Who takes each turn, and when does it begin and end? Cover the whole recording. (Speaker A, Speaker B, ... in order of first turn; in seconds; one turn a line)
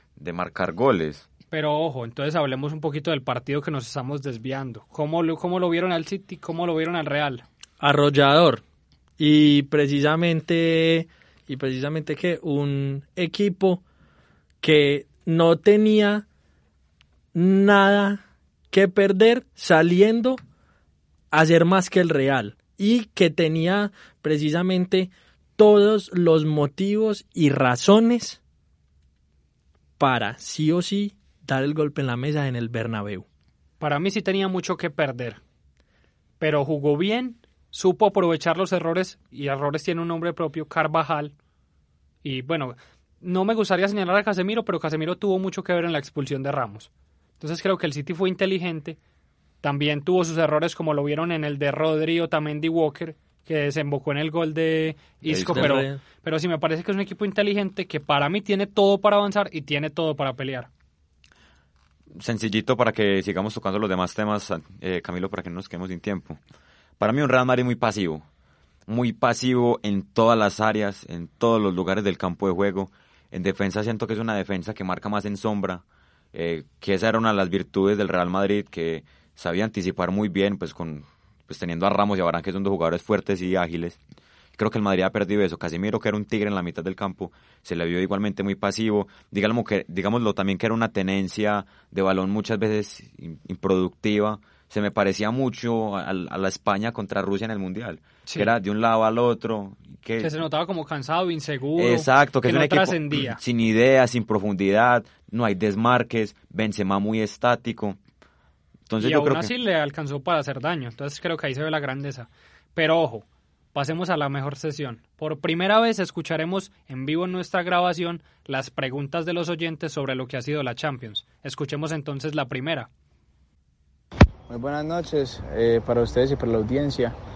Speaker A: 0.2-1.3
Speaker B: 1.5-7.4
Speaker C: 7.8-8.6
Speaker C: 9.2-13.8
Speaker C: 14.6-16.2
Speaker C: 17.3-20.4
Speaker C: 21.3-28.4
Speaker C: 30.0-33.2
Speaker B: 33.8-35.4
Speaker B: 36.4-41.3
Speaker B: 42.2-46.9
Speaker B: 47.4-49.0
Speaker B: 49.6-60.7
Speaker A: 55.3-55.8
Speaker C: 55.4-56.0
Speaker A: 62.2-66.4
Speaker A: 67.0-68.2
Speaker A: 68.9-75.8
Speaker A: 76.3-84.0
Speaker A: 84.6-100.3
Speaker B: 100.2-103.4
Speaker A: 101.8-108.0
Speaker A: 108.9-109.5
Speaker B: 109.0-122.9
Speaker D: 124.5-127.2